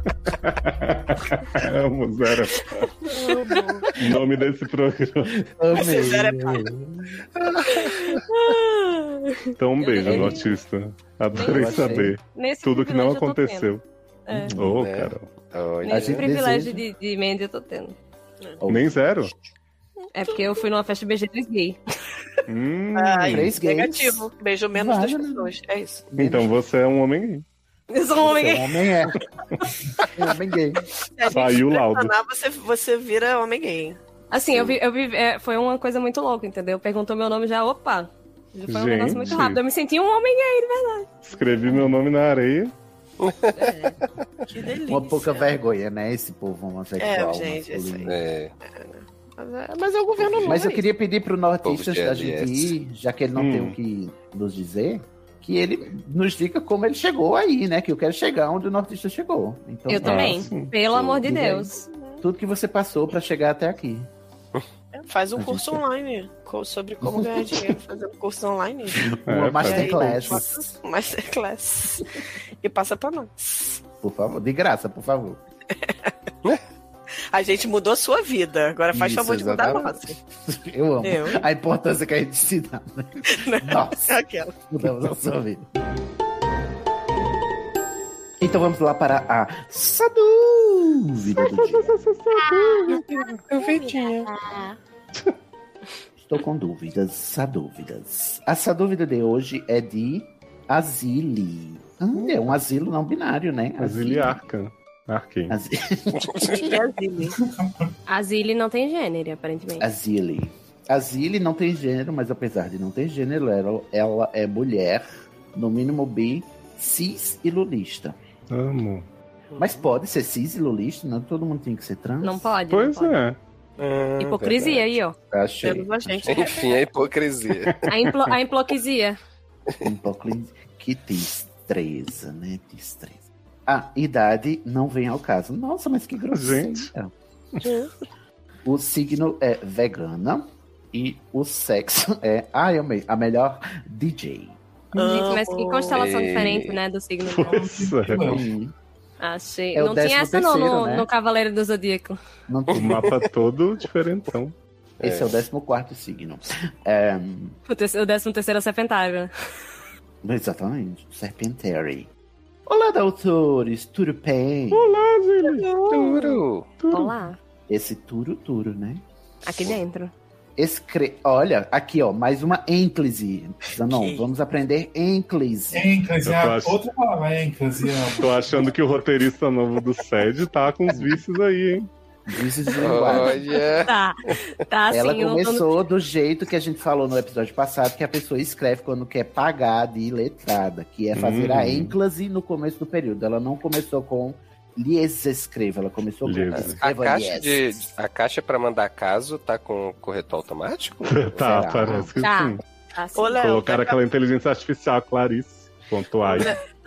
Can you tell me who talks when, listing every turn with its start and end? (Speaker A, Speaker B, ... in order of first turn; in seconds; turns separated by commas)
Speaker A: 0.4-2.8, Speaker B: 3.1-3.6, Speaker A: 4.0-5.5, Speaker C: 5.5-7.2, Speaker B: 5.7-6.6, Speaker D: 7.4-8.0, Speaker E: 7.7-10.4, Speaker A: 9.6-13.8, Speaker C: 10.1-10.4, Speaker E: 11.3-13.7, Speaker C: 11.4-12.2, Speaker E: 14.3-14.5, Speaker C: 14.3-14.8, Speaker A: 14.5-15.3, Speaker D: 14.7-16.3, Speaker E: 15.8-17.9, Speaker C: 15.9-16.8, Speaker C: 18.6-19.5, Speaker A: 18.6-19.3, Speaker E: 20.1-21.8, Speaker B: 20.2-20.6, Speaker A: 22.5-23.5, Speaker B: 22.9-26.0, Speaker C: 23.3-25.5, Speaker C: 26.1-26.5, Speaker A: 26.1-27.4, Speaker E: 27.9-28.9, Speaker C: 28.2-29.1, Speaker E: 29.6-30.1, Speaker C: 30.1-30.9, Speaker B: 31.1-34.0, Speaker A: 31.3-32.1, Speaker E: 34.3-41.1, Speaker A: 38.7-39.6, Speaker C: 39.1-39.4, Speaker A: 41.2-42.7, Speaker D: 43.2-43.5, Speaker E: 43.6-44.0, Speaker B: 44.5-45.5, Speaker C: 44.9-48.1, Speaker B: 47.0-50.8, Speaker D: 48.0-48.5, Speaker D: 50.2-50.6, Speaker C: 50.4-60.5, Speaker D: 51.6-52.7, Speaker A: 53.4-53.8, Speaker E: 59.9-61.8, Speaker A: 60.0-60.7, Speaker D: 60.9-61.2, Speaker C: 61.2-61.7, Speaker B: 61.9-62.2, Speaker C: 62.2-64.1, Speaker B: 64.9-73.8, Speaker C: 65.3-65.8, Speaker C: 67.0-67.6, Speaker C: 69.0-70.5, Speaker A: 69.2-70.4, Speaker C: 74.0-75.4, Speaker B: 75.8-76.1, Speaker B: 77.3-80.2, Speaker C: 78.9-84.2, Speaker B: 81.0-81.4, Speaker B: 83.3-84.5, Speaker C: 84.7-85.7, Speaker C: 88.4-92.0, Speaker A: 91.4-93.0, Speaker D: 93.5-94.3, Speaker B: 93.6-94.7, Speaker C: 96.2-104.4, Speaker A: 103.8-105.6, Speaker C: 105.5-106.6, Speaker B: 106.4-107.4, Speaker F: 107.4-107.9, Speaker E: 108.1-109.9, Speaker C: 109.8-118.2, Speaker A: 118.5-119.1, Speaker D: 119.5-119.8, Speaker C: 119.6-122.5, Speaker E: 122.2-123.2, Speaker A: 122.7-123.4, Speaker D: 123.8-124.6, Speaker E: 124.2-125.2, Speaker C: 125.3-126.5, Speaker B: 125.6-126.8, Speaker D: 126.3-127.8, Speaker A: 127.6-128.3, Speaker E: 127.9-129.2, Speaker C: 129.8-137.1, Speaker A: 136.3-136.9, Speaker B: 137.6-137.9, Speaker C: 138.6-144.6, Speaker B: 144.9-146.0, Speaker E: 144.9-147.6, Speaker D: 145.9-146.8, Speaker A: 147.2-148.4, Speaker F: 147.4-148.5, Speaker C: 148.3-148.7, Speaker E: 149.2-152.2, Speaker C: 149.7-151.1, Speaker C: 152.5-153.1, Speaker A: 152.7-154.5, Speaker D: 155.0-155.4, Speaker C: 155.0-157.6, Speaker E: 157.7-159.3, Speaker C: 160.2-162.1, Speaker C: 162.7-165.0, Speaker A: 164.7-166.0, Speaker B: 165.5-166.2, Speaker D: 165.9-166.7, Speaker A: 166.8-167.2, Speaker E: 166.9-167.4, Speaker C: 167.7-169.0, Speaker E: 169.4-170.1, Speaker C: 170.6-175.9, Speaker B: 173.9-174.3, Speaker F: 175.7-178.7, Speaker A: 176.2-176.8, Speaker A: 178.2-181.9, Speaker C: 182.3-183.5, Speaker D: 182.8-183.9, Speaker E: 183.0-185.6, Speaker C: 184.9-197.8, Speaker A: 191.1-191.9, Speaker A: 196.2-196.8, Speaker D: 196.6-201.3, Speaker A: 201.1-202.6, Speaker C: 201.3-202.1, Speaker E: 202.2-203.3, Speaker B: 203.1-204.0, Speaker A: 203.4-206.5, Speaker B: 206.2-206.6